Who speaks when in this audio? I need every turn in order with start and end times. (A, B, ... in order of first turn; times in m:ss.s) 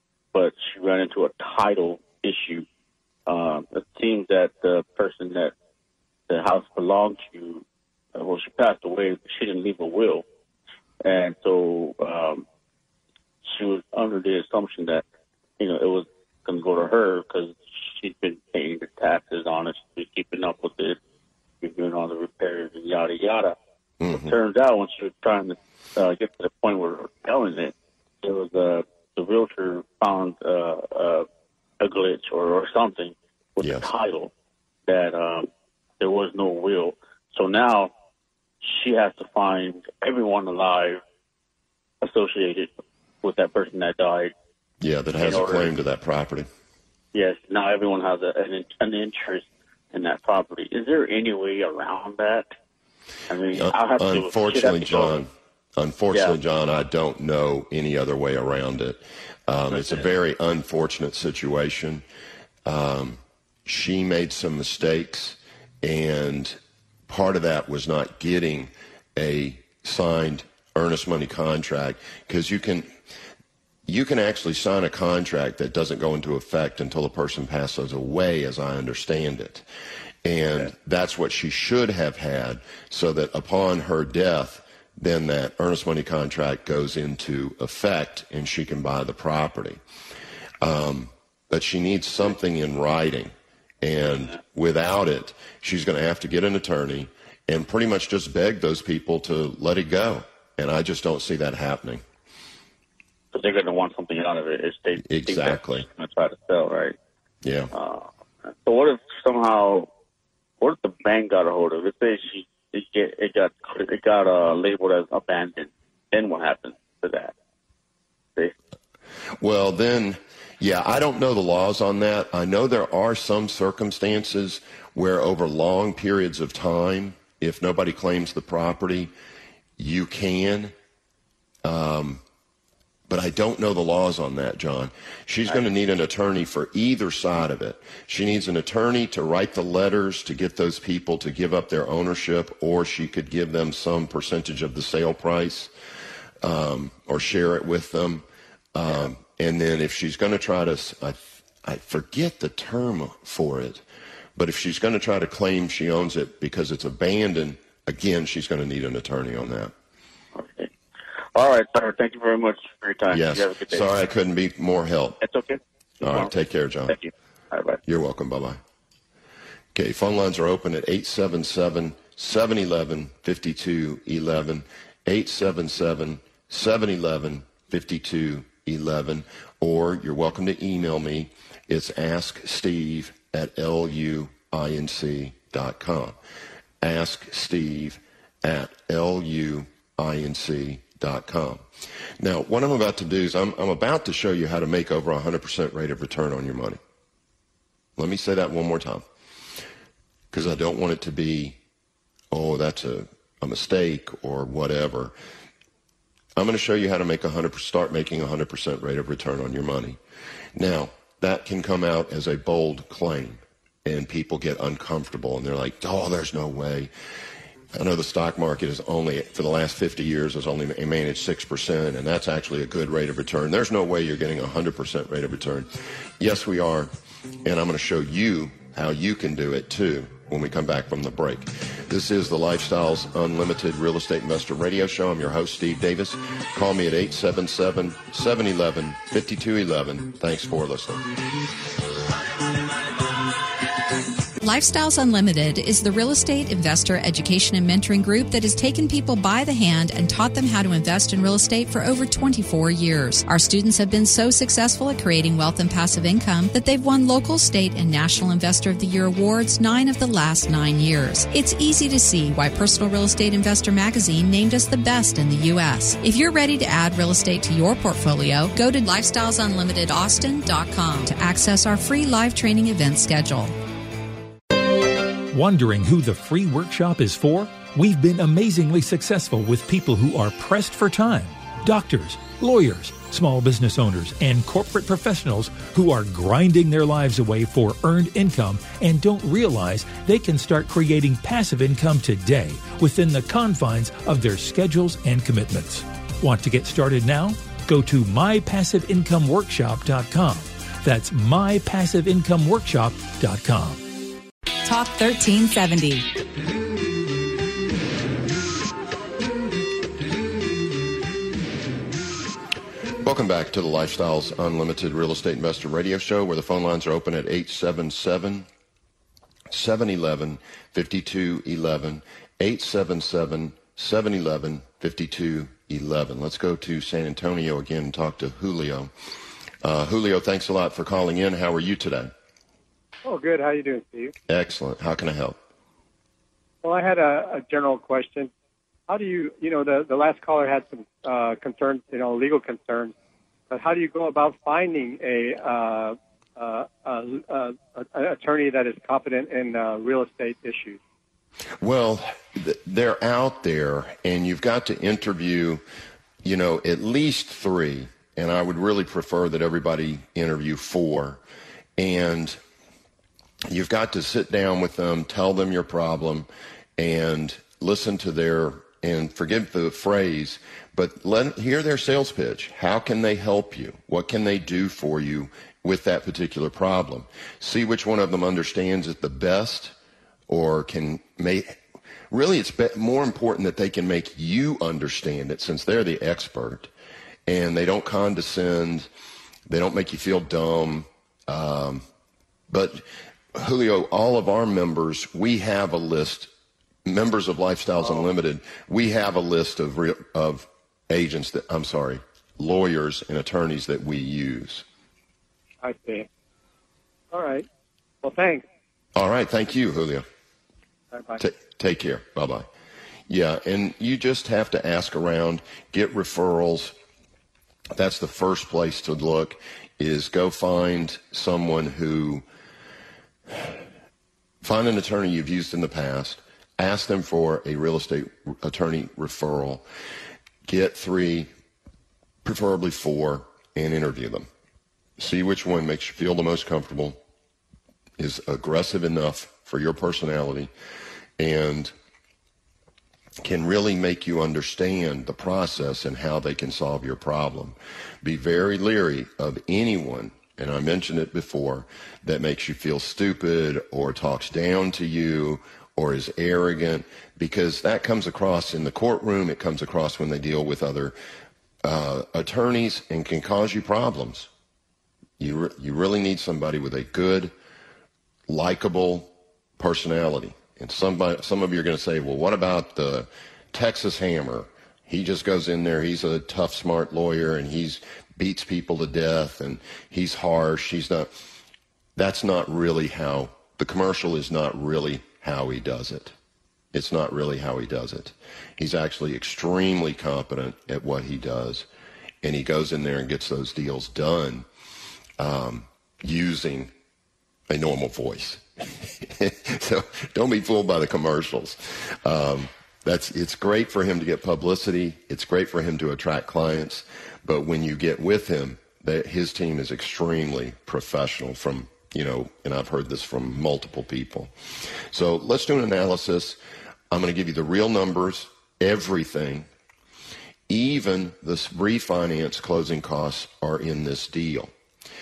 0:00.3-0:02.6 A
0:03.3-0:05.5 A
0:06.3-0:10.2 A
0:11.0-0:12.4 A
0:13.4-0:15.0 A
0:15.6-0:21.0 A
0:21.6-0:23.6 A
0:24.0-0:24.3 B
0:24.1-0:31.3 A
0:31.8-0:34.3 A
0:33.6-0:33.9 B
0:34.9-0:35.5 A
0:36.0-0:37.9 A
0:38.6-0:41.0 A
0:42.0-0:42.7 A
0:43.2-0:44.3 A
0:44.8-0:46.5 B
0:45.2-0:45.7 A
0:47.1-0:52.5 A
0:53.3-0:55.2 A
0:53.5-1:02.0 B
0:59.7-1:00.0 A
1:02.6-1:12.9 B
1:13.8-1:19.6 B
1:20.2-1:29.8 B
1:30.6-1:42.0 B
1:43.3-1:46.9 A
1:45.0-1:45.9 B
1:47.4-1:47.7 B
1:47.7-1:49.9 A
1:50.6-1:57.3 A
1:59.4-2:09.1 B
2:09.8-2:10.7 B
2:11.6-2:12.2 B
2:13.1-2:25.7 B
2:26.4-2:33.8 B
2:34.4-2:39.7 B
2:40.3-2:40.7 A
2:41.3-2:43.9 A
2:43.1-2:45.2 B
2:45.2-2:46.3 A
2:46.0-2:47.0 B
2:46.9-2:47.8 A
2:47.8-2:48.6 B
2:49.7-3:06.2 B
3:06.8-3:11.6 B
3:12.2-3:16.8 B
3:18.0-3:19.0 B
3:20.3-3:21.6 B
3:22.3-3:25.1 B
3:26.4-3:30.0 B
3:30.6-3:36.9 B
3:37.7-3:46.9 B
3:47.4-4:01.0 B
4:04.4-4:33.5 C
4:35.3-5:03.8 D
5:04.7-5:06.0 C
5:13.0-5:18.5 B
5:19.5-5:28.9 B
5:29.6-5:32.1 B
5:33.0-5:34.1 E
5:34.3-5:35.4 B
5:36.6-5:38.3 E
5:38.9-5:42.9 E
5:43.5-5:50.8 E
5:51.6-5:55.6 B
5:56.2-6:01.2 B
6:01.8-6:02.4 B
6:03.5-6:19.7 B
6:20.3-6:21.6 B
6:22.1-6:26.7 B
6:27.3-6:28.9 B
6:29.5-6:31.8 B
6:32.5-6:36.3 B
6:36.8-6:44.6 B
6:45.6-6:46.1 E
6:47.1-6:47.5 E
6:48.0-6:48.4 E
6:48.9-6:50.0 B
6:50.9-6:51.2 E
6:51.2-6:52.5 B
6:53.1-6:56.8 B
6:57.7-7:02.2 B
7:04.4-7:09.6 B
7:10.5-7:11.3 B
7:12.2-7:14.3 B
7:15.0-7:17.0 B
7:18.0-7:20.5 B
7:21.2-7:21.7 B
7:23.2-7:41.0 B
7:41.6-7:44.3 B
7:45.2-7:47.3 B
7:48.3-8:01.1 B
8:02.0-8:06.1 B
8:06.7-8:11.7 B
8:12.2-8:14.4 B
8:15.2-8:16.7 B
8:17.5-8:34.3 B
8:34.9-8:36.4 B
8:36.9-8:39.5 B
8:40.5-8:44.5 B